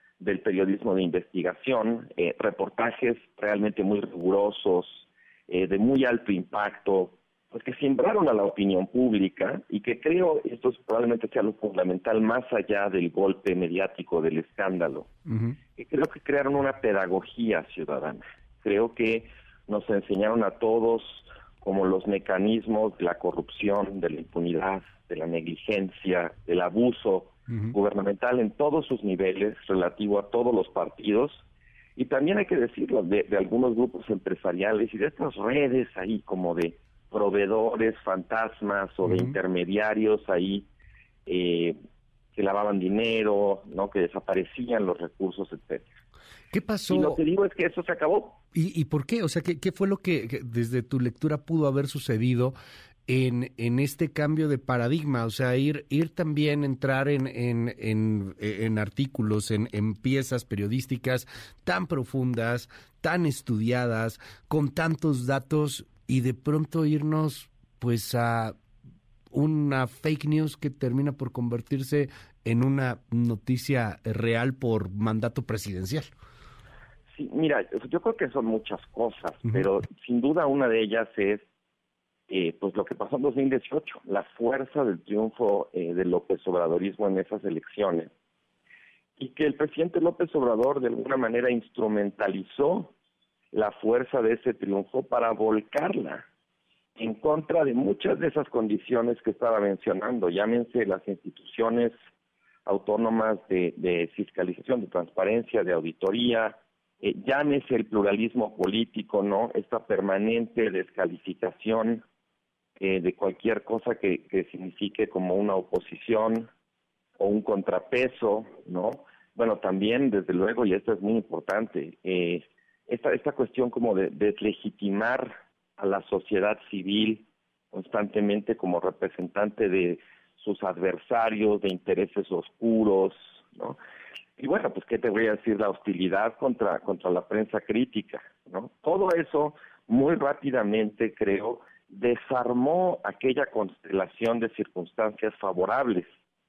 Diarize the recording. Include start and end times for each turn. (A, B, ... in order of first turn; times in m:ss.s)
0:00.2-0:15.1 A
0:15.3-0:15.6 B
0:15.8-0:31.4 A
0:32.0-0:40.7 A
0:39.0-0:39.4 B
0:41.3-0:41.8 A
0:42.4-0:45.9 A
0:46.5-0:47.2 B
0:46.9-0:48.4 A
0:48.5-0:52.6 B
0:53.1-1:08.6 B
1:09.3-1:16.1 B
1:17.1-1:21.4 A
1:22.3-1:28.1 A
1:29.2-1:32.9 A
1:33.5-1:36.2 A
1:37.0-1:41.9 A
1:42.7-1:52.0 A
1:52.8-1:56.5 A
1:57.2-2:13.8 A
2:14.4-2:26.1 A